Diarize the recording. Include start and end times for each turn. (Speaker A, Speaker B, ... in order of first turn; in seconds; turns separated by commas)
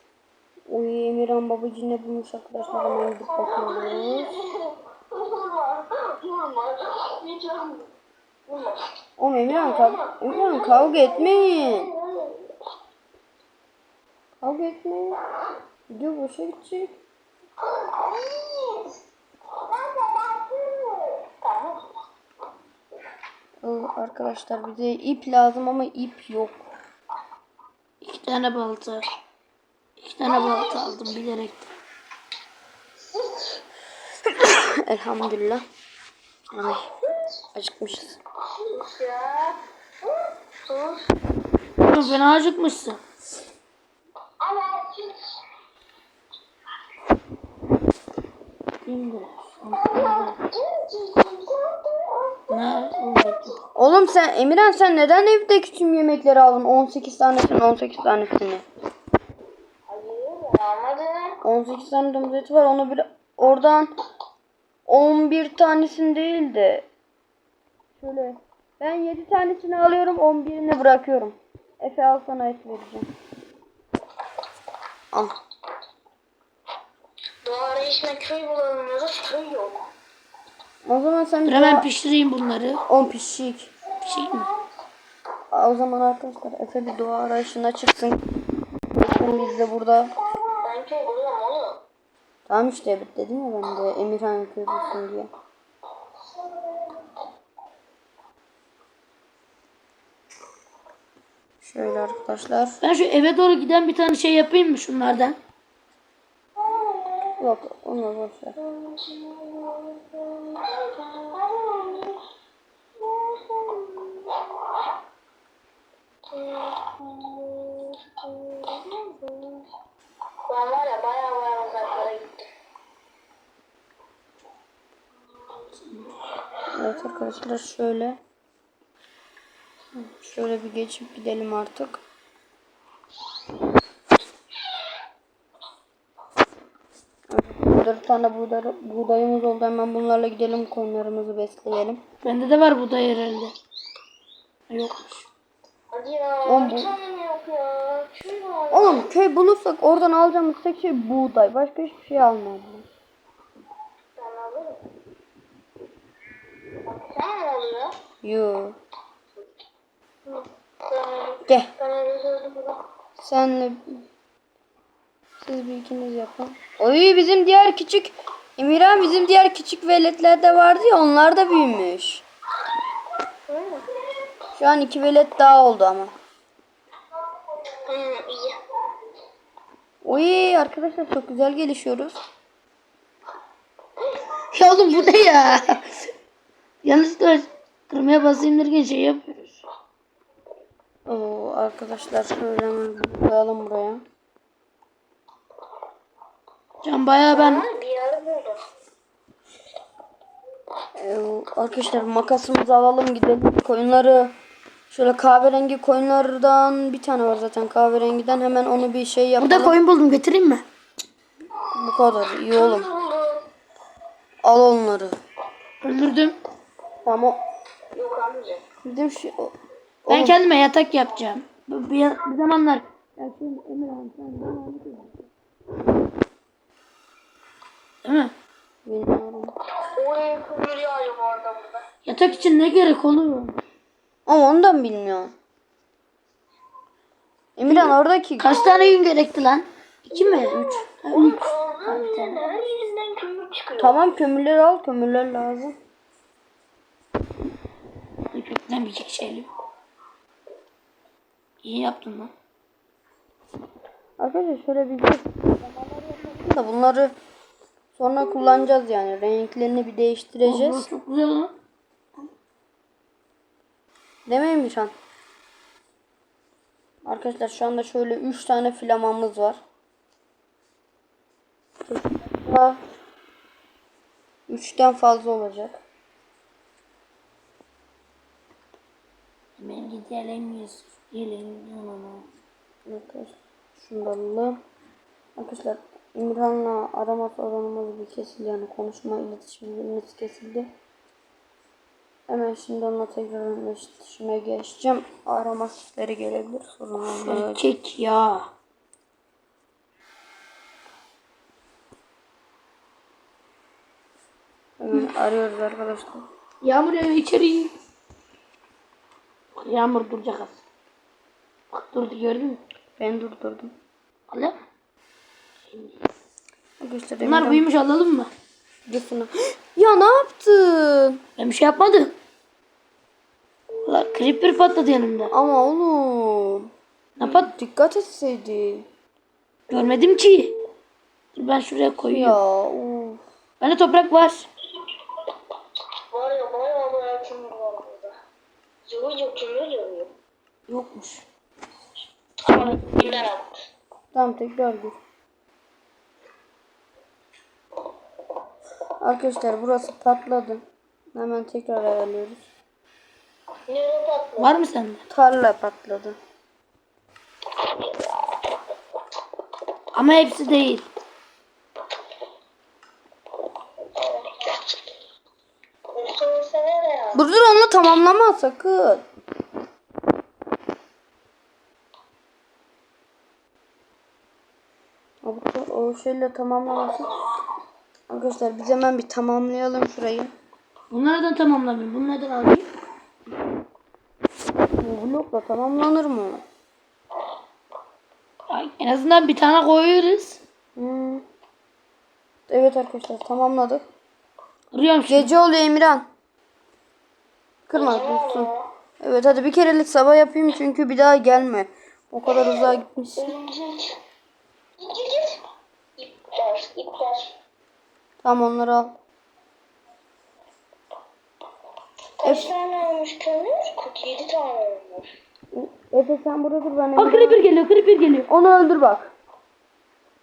Speaker A: 0.7-4.4, Speaker B: 2.7-7.9, Speaker B: 8.5-8.9, Speaker A: 9.2-11.9, Speaker B: 9.5-12.5, Speaker A: 14.4-15.2, Speaker A: 15.9-16.9, Speaker B: 17.8-19.0, Speaker B: 19.7-21.9, Speaker A: 23.6-26.6, Speaker C: 28.0-29.1, Speaker C: 30.0-31.7, Speaker B: 30.2-31.1, Speaker B: 33.1-33.6, Speaker A: 34.3-35.6, Speaker A: 36.5-36.9, Speaker A: 37.5-38.2, Speaker B: 38.5-41.2, Speaker C: 41.8-43.0, Speaker B: 44.4-45.4, Speaker C: 48.8-50.4, Speaker B: 49.7-52.5, Speaker C: 52.5-53.6, Speaker A: 53.8-58.6, Speaker B: 59.9-61.4, Speaker A: 61.4-63.9, Speaker A: 64.9-66.8, Speaker A: 68.0-73.1, Speaker B: 77.4-79.9, Speaker A: 80.8-81.9, Speaker C: 81.5-82.8, Speaker A: 82.9-83.7, Speaker C: 84.0-84.5, Speaker A: 85.5-88.2, Speaker A: 88.9-90.2, Speaker B: 90.5-91.8, Speaker A: 92.5-95.3, Speaker B: 96.5-96.9, Speaker A: 101.6-102.8, Speaker C: 102.8-105.4, Speaker B: 106.6-107.3, Speaker A: 107.4-108.6, Speaker B: 108.6-112.2, Speaker B: 113.0-114.6, Speaker B: 116.3-119.7, Speaker B: 120.5-122.5, Speaker C: 125.8-126.1, Speaker A: 126.8-128.2, Speaker A: 129.9-132.0, Speaker A: 137.3-142.0, Speaker C: 142.2-143.5, Speaker C: 144.7-145.3, Speaker B: 145.9-149.1, Speaker A: 146.5-146.9, Speaker A: 148.7-152.9, Speaker B: 154.2-154.9, Speaker B: 156.8-158.0, Speaker A: 158.2-158.8, Speaker B: 160.3-162.8, Speaker A: 163.2-164.0, Speaker A: 165.4-172.2, Speaker B: 173.5-174.0, Speaker A: 174.6-176.1, Speaker B: 177.7-178.6, Speaker A: 180.0-182.2, Speaker C: 184.5-186.1, Speaker C: 186.8-189.6, Speaker A: 191.1-194.0, Speaker C: 196.8-197.7, Speaker B: 197.3-198.6, Speaker A: 201.0-204.3, Speaker A: 204.9-209.8, Speaker C: 209.4-210.7, Speaker A: 211.8-212.9, Speaker B: 212.5-213.5, Speaker A: 214.4-215.2, Speaker C: 215.8-216.4, Speaker A: 217.1-217.4, Speaker B: 217.9-218.6, Speaker A: 218.8-220.4, Speaker C: 220.1-225.3, Speaker C: 228.0-228.3, Speaker A: 228.8-229.5, Speaker B: 229.8-231.8, Speaker C: 232.1-233.6, Speaker A: 234.3-235.3, Speaker A: 237.6-238.6, Speaker C: 237.7-242.7, Speaker B: 238.4-239.0, Speaker B: 240.1-244.0, Speaker A: 240.5-240.8, Speaker A: 243.8-245.8, Speaker C: 248.3-249.5, Speaker C: 251.6-252.3, Speaker A: 254.2-257.1, Speaker A: 257.9-260.9, Speaker C: 260.4-261.5, Speaker A: 264.3-264.9, Speaker A: 267.1-269.6, Speaker A: 271.9-272.8, Speaker A: 274.5-275.8, Speaker C: 279.6-282.3, Speaker A: 282.9-284.6, Speaker A: 285.4-290.7, Speaker A: 292.3-297.6, Speaker C: 297.1-298.5, Speaker A: 304.8-306.2, Speaker C: 306.6-307.7, Speaker C: 309.6-310.6, Speaker C: 311.7-312.6, Speaker A: 313.0-313.7, Speaker C: 314.3-314.6, Speaker A: 316.8-317.7, Speaker C: 317.2-318.3, Speaker A: 318.9-321.2, Speaker C: 321.4-322.1, Speaker C: 323.8-325.3, Speaker A: 325.3-326.7, Speaker C: 327.2-327.5, Speaker A: 327.2-328.9, Speaker C: 329.7-330.6, Speaker C: 331.4-332.4, Speaker A: 332.0-333.2, Speaker C: 333.6-334.5, Speaker B: 336.1-338.1, Speaker B: 338.9-340.1, Speaker C: 340.7-341.2, Speaker B: 342.4-343.6, Speaker C: 342.5-343.3, Speaker A: 344.1-345.0, Speaker A: 349.0-350.6, Speaker A: 351.1-352.4, Speaker B: 353.7-354.6, Speaker C: 354.4-355.0, Speaker A: 355.1-356.2, Speaker C: 359.9-360.9, Speaker B: 363.9-364.6, Speaker B: 365.9-367.2, Speaker A: 367.1-369.0, Speaker A: 375.2-377.1, Speaker A: 378.1-380.3, Speaker C: 380.9-382.7, Speaker A: 384.8-386.4, Speaker C: 388.5-390.4, Speaker A: 390.8-391.2, Speaker A: 392.5-393.8, Speaker C: 394.7-395.3, Speaker A: 395.1-396.1, Speaker A: 397.7-403.3, Speaker B: 397.7-398.7, Speaker B: 402.3-404.0, Speaker B: 404.8-405.4, Speaker B: 406.0-407.3, Speaker A: 408.2-408.9, Speaker B: 412.2-415.1, Speaker A: 412.2-412.5, Speaker A: 415.5-417.4, Speaker C: 417.0-418.3, Speaker A: 418.3-419.1